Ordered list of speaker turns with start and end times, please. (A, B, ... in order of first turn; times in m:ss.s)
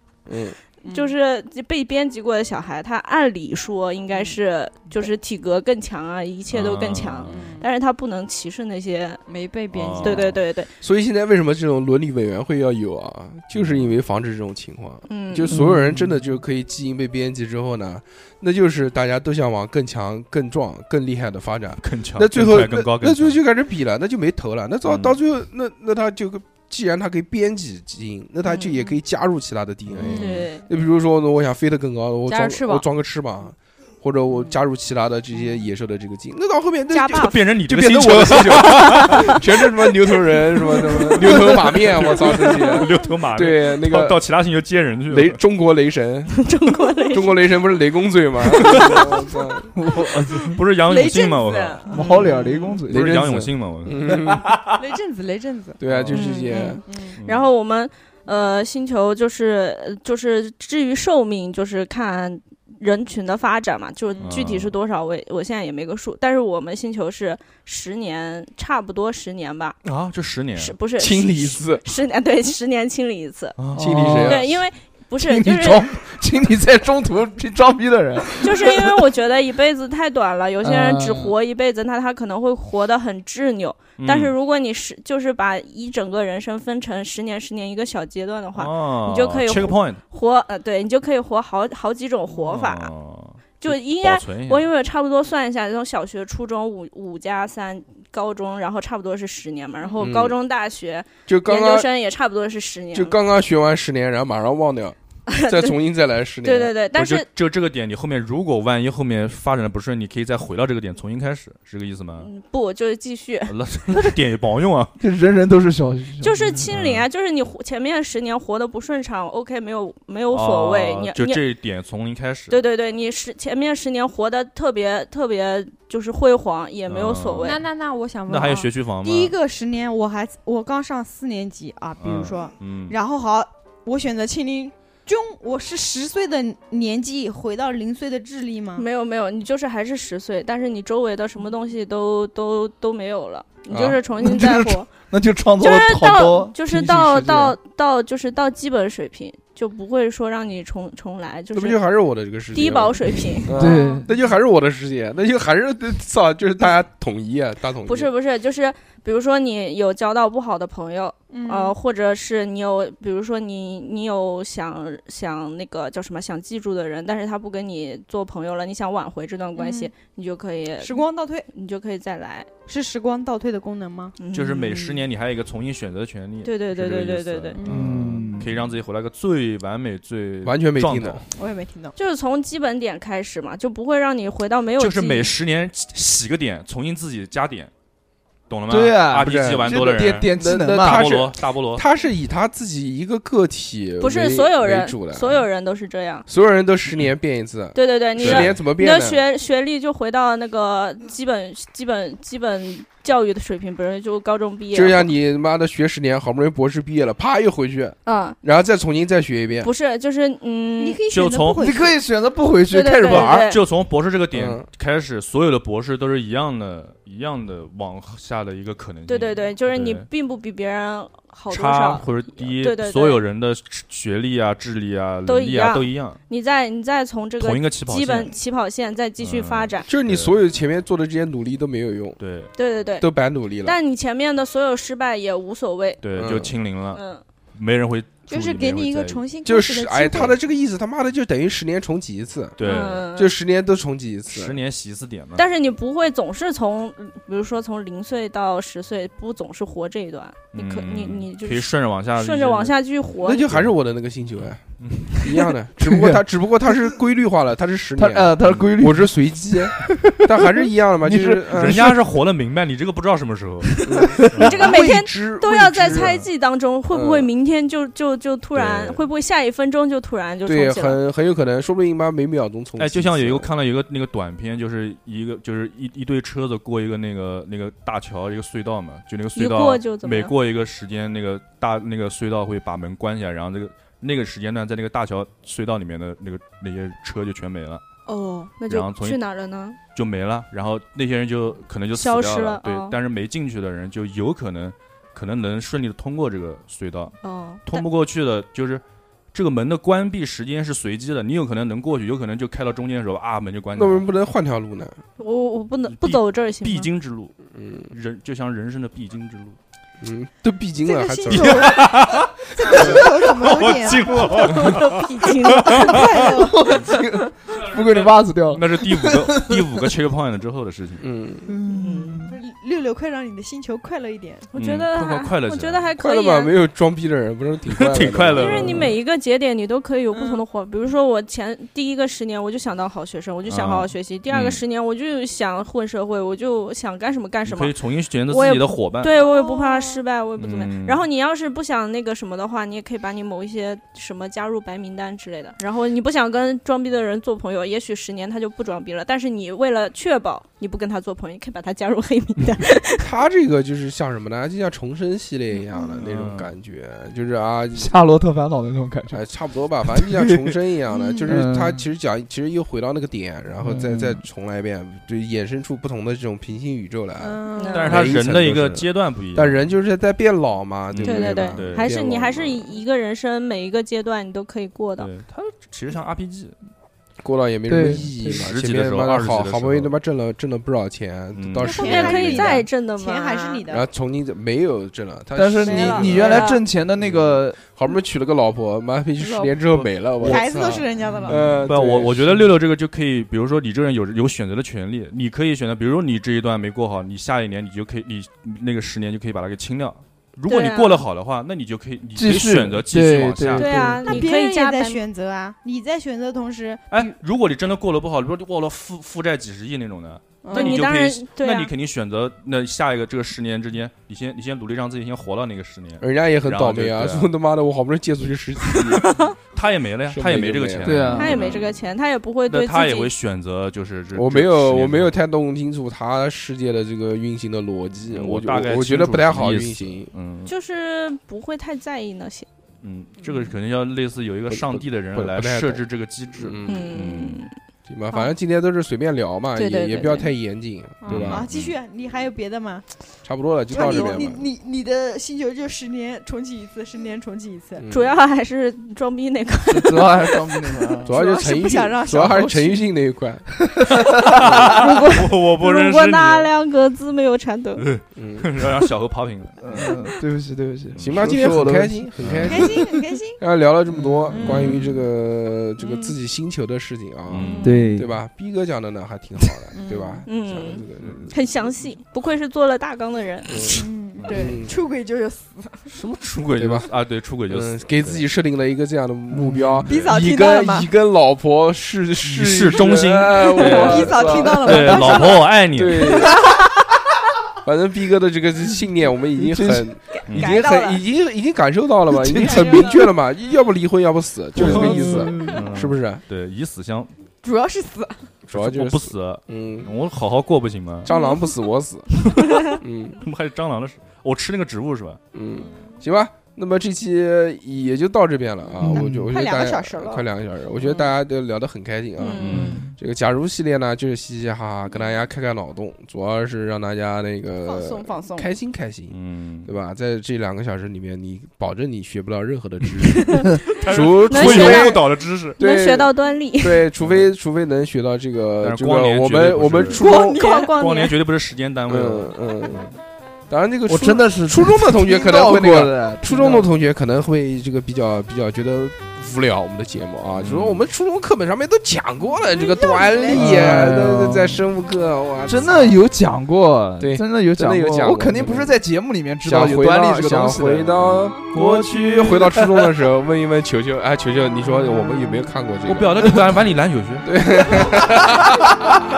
0:00.3-0:00.6 A
0:00.8-0:01.1 B
0:00.9-0:09.2 C
0:04.1-0:04.4 B
0:06.5-0:07.4 D
0:07.3-0:07.7 B
0:09.3-0:10.4 B
0:09.7-0:10.3 D
0:10.0-0:10.7 C
0:10.8-0:44.2 A
0:13.5-0:14.0 D
0:15.1-0:15.5 C
0:15.5-0:16.1 E
0:21.8-0:23.4 D
0:24.8-0:25.2 D
0:28.5-0:28.9 B
0:30.0-0:30.5 B
0:30.1-0:30.6 C
0:32.3-0:32.9 B
0:34.3-0:34.6 B
0:36.9-0:37.4 C
0:37.1-0:39.4 D
0:38.9-0:39.3 C
0:41.2-0:45.4 D
0:45.1-0:46.3 A
0:46.3-0:47.4 C
0:47.1-0:49.7 A
0:48.5-0:49.1 D
0:49.7-0:50.6 E
0:50.6-0:54.0 D
0:50.8-0:52.0 B
0:51.9-0:53.2 E
0:52.9-0:54.6 A
0:54.8-0:55.8 B
0:55.8-0:56.8 A
0:55.9-0:56.2 D
0:56.1-1:09.8 C
0:56.8-0:57.2 B
1:04.1-1:04.5 B
1:04.2-1:04.7 D
1:09.9-1:10.8 D
1:10.6-1:13.6 C
1:11.0-1:11.8 A
1:13.6-1:14.2 D
1:13.8-1:14.6 E
1:13.8-1:14.5 A
1:14.2-1:15.9 C
1:15.2-1:19.0 E
1:18.4-1:32.9 C
1:20.6-1:21.3 E
1:24.0-1:24.3 D
1:28.6-1:30.0 D
1:32.3-1:34.6 D
1:33.6-1:43.2 C
1:40.0-1:40.4 A
1:41.3-1:41.9 A
1:42.9-1:46.7 A
1:45.3-1:45.8 C
1:46.4-1:47.3 C
1:47.0-1:52.3 D
1:52.2-1:54.1 C
1:53.5-1:55.0 D
1:55.0-1:56.5 E
1:56.2-2:01.4 C
1:56.7-1:57.1 D
2:00.3-2:02.6 D
2:02.5-2:07.6 C
2:06.9-2:07.6 D
2:07.4-2:18.8 B
2:08.3-2:09.4 D
2:12.0-2:13.0 D
2:18.8-2:24.9 C
2:23.7-2:24.0 A
2:24.2-2:27.6 E
2:25.6-2:31.8 C
2:31.5-2:38.1 A
2:32.5-2:33.5 C
2:33.6-2:34.1 E
2:33.6-2:34.0 B
2:37.9-2:52.5 C
2:41.3-2:41.8 B
2:49.6-2:49.9 B
2:50.8-2:51.5 B
2:52.7-2:54.2 B
2:54.2-2:54.8 C
2:54.3-3:01.2 D
2:56.4-2:57.6 C
2:57.6-2:57.8 B
2:57.7-2:58.5 E
3:00.4-3:01.2 A
3:01.4-3:02.0 B
3:02.0-3:05.3 C
3:04.8-3:07.7 D
3:08.5-3:11.8 D
3:08.7-3:11.1 E
3:09.2-3:15.4 A
3:14.0-3:16.3 C
3:16.3-3:19.2 A
3:17.7-3:25.1 C
3:18.2-3:18.6 D
3:24.7-3:29.7 A
3:28.1-3:28.4 C
3:29.6-3:31.0 C
3:30.8-3:32.0 B
3:31.1-3:31.7 D
3:31.6-3:33.5 E
3:32.7-3:33.6 C
3:33.1-3:40.1 D
3:34.3-3:34.6 A
3:39.1-3:43.2 C
3:41.5-3:46.2 D
3:45.3-3:49.9 C
3:47.4-3:48.3 D
3:49.2-3:50.4 D
3:49.9-3:52.2 A
3:52.2-3:52.5 D
3:52.6-3:53.1 C
3:53.0-3:53.8 A
3:53.6-3:56.0 C
3:56.0-3:57.0 D
3:56.2-3:56.5 A
3:56.9-3:57.2 C
3:57.5-3:59.2 D
3:58.3-4:00.3 B
3:59.4-4:02.6 A
4:02.6-4:03.1 D
4:02.6-4:03.3 C
4:03.1-4:04.6 A
4:04.3-4:05.4 D
4:05.4-4:13.5 C
4:10.6-4:12.7 D
4:13.2-4:14.6 A
4:14.8-4:15.1 D
4:15.2-4:21.9 A
4:15.8-4:16.2 E
4:18.0-4:20.2 E
4:18.4-4:18.7 D
4:21.1-4:21.9 E
4:21.5-4:24.6 D
4:23.8-4:26.1 A
4:24.3-4:31.0 C
4:25.9-4:26.3 D
4:26.9-4:27.3 A
4:28.6-4:29.0 D
4:30.5-4:33.5 A
4:32.8-4:47.8 D
4:39.4-4:40.3 C
4:48.1-4:48.6 B
4:48.6-4:49.8 C
4:48.7-4:49.2 D
4:49.9-4:58.8 D
4:51.9-4:53.0 C
4:57.2-4:57.8 C
4:59.3-5:04.1 D
5:03.8-5:05.0 A
5:05.2-5:06.9 C
5:05.9-5:07.4 D
5:07.6-5:07.9 A
5:07.9-5:09.6 D
5:10.0-5:11.9 A
5:10.8-5:14.7 B
5:11.3-5:16.2 D
5:12.7-5:13.0 A
5:14.4-5:16.1 C
5:15.6-5:16.6 B
5:16.2-5:19.8 E
5:17.5-5:21.0 D
5:21.0-5:21.5 A
5:21.5-5:22.4 E
5:21.7-5:22.2 C
5:22.3-5:24.5 B
5:24.5-5:26.6 C
5:24.6-5:25.8 D
5:26.0-5:28.7 A
5:27.7-5:28.9 D
5:28.3-5:37.8 C
5:30.1-5:30.4 B
5:33.5-5:34.6 D
5:37.4-5:39.2 D
5:38.3-5:53.1 C
5:39.1-5:40.0 B
5:40.4-5:41.0 D
5:53.0-5:57.9 A
5:55.5-5:56.0 B
5:56.0-5:56.5 D
5:57.8-5:59.3 E
5:59.1-6:12.6 A
5:59.8-6:00.5 E
6:00.9-6:01.3 B
6:01.3-6:01.9 E
6:03.6-6:04.2 E
6:07.2-6:08.0 B
6:07.6-6:08.1 C
6:07.7-6:09.7 D
6:10.9-6:11.9 D
6:11.0-6:15.1 C
6:15.0-6:16.6 D
6:17.2-6:22.6 A
6:17.7-6:18.4 E
6:18.2-6:19.9 D
6:21.4-6:22.4 D
6:21.6-6:23.8 B
6:21.7-6:23.7 C
6:23.7-6:26.3 A
6:25.4-6:27.6 E
6:25.6-6:26.6 C
6:27.8-6:32.4 A
6:29.2-6:31.4 B
6:31.2-6:44.0 D
6:40.5-6:41.0 C
6:42.2-6:44.1 E
6:43.6-6:45.0 C
6:44.0-6:47.1 B
6:46.9-6:57.3 D
6:50.4-6:50.9 B
6:50.5-6:51.7 C
6:56.0-6:59.1 A
6:59.0-6:59.4 C
6:59.5-7:01.8 D
7:00.1-7:01.4 A
7:00.8-7:01.3 E
7:01.1-7:03.1 C
7:02.5-7:05.1 D
7:04.1-7:10.1 A
7:08.1-7:10.5 D
7:10.5-7:12.5 C
7:12.8-7:17.4 D
7:13.2-7:13.5 B
7:14.5-7:15.8 A
7:16.4-7:16.9 A
7:16.7-7:17.5 C
7:17.9-7:21.4 A
7:19.6-7:20.3 C
7:21.0-7:22.9 B
7:21.1-7:21.8 D
7:23.2-7:24.5 A
7:23.7-7:27.9 B
7:27.8-7:28.1 A
7:27.9-7:30.4 C
7:29.7-7:31.1 E
7:30.9-7:32.9 B
7:31.1-7:33.8 A
7:33.8-7:34.0 E
7:34.3-7:36.5 D
7:34.7-7:37.9 C
7:37.8-7:39.9 D
7:38.2-7:38.5 A
7:39.6-7:42.1 E
7:41.0-7:41.4 D
7:41.0-7:51.3 A
7:42.2-7:42.7 D
7:42.5-7:43.4 B
7:44.3-7:44.8 B
7:44.4-7:44.8 D
7:45.8-7:46.1 B
7:47.3-7:47.9 D
7:47.4-7:47.9 B
7:47.6-7:48.1 E
7:49.7-7:50.2 B
7:50.3-7:53.7 C
7:51.0-7:51.3 D
7:53.5-7:54.7 A
7:53.7-7:55.9 B
7:54.2-7:54.5 D
7:55.9-7:58.2 D
7:56.6-7:56.9 A
7:57.5-8:06.5 A
7:59.3-7:59.9 E
7:59.9-8:00.9 B
8:02.2-8:06.2 D
8:03.6-8:05.6 B
8:06.2-8:06.6 B
8:07.6-8:16.2 A
8:09.4-8:09.9 E
8:10.3-8:10.6 D
8:10.3-8:11.0 B
8:12.1-8:13.0 E
8:12.3-8:13.1 B
8:14.6-8:15.6 E
8:14.6-8:15.0 D
8:15.5-8:17.1 D
8:17.4-8:18.3 B
8:18.5-8:19.9 A
8:18.5-8:21.1 D
8:21.0-8:23.2 A
8:21.1-8:21.5 B
8:22.2-8:22.6 D
8:22.5-8:22.8 C
8:23.2-8:25.2 D
8:25.3-8:45.0 A
8:25.6-8:25.9 B
8:28.8-8:29.3 E
8:28.9-8:30.2 B
8:30.8-8:31.1 B
8:32.2-8:32.8 C
8:32.3-8:32.8 D
8:32.5-8:32.9 E
8:37.6-8:38.5 B
8:39.1-8:39.7 D
8:43.1-8:43.7 C
8:43.6-8:45.6 D
8:44.3-8:45.1 C
8:45.6-8:46.9 C
8:45.6-8:50.4 A
8:47.0-8:47.3 D
8:48.6-8:50.0 D
8:50.0-8:51.2 C
8:50.0-8:50.7 B
8:50.6-8:52.4 D
8:51.9-8:52.9 A
8:53.5-9:06.0 A
8:53.9-8:56.7 E
9:00.4-9:00.8 D
9:02.5-9:03.9 B
9:03.3-9:04.6 E
9:05.5-9:11.0 E
9:07.0-9:08.8 A
9:09.4-9:16.4 A
9:11.0-9:12.6 D
9:11.5-9:12.3 E
9:15.9-9:17.3 D
9:17.2-9:18.9 A
9:17.8-9:18.4 B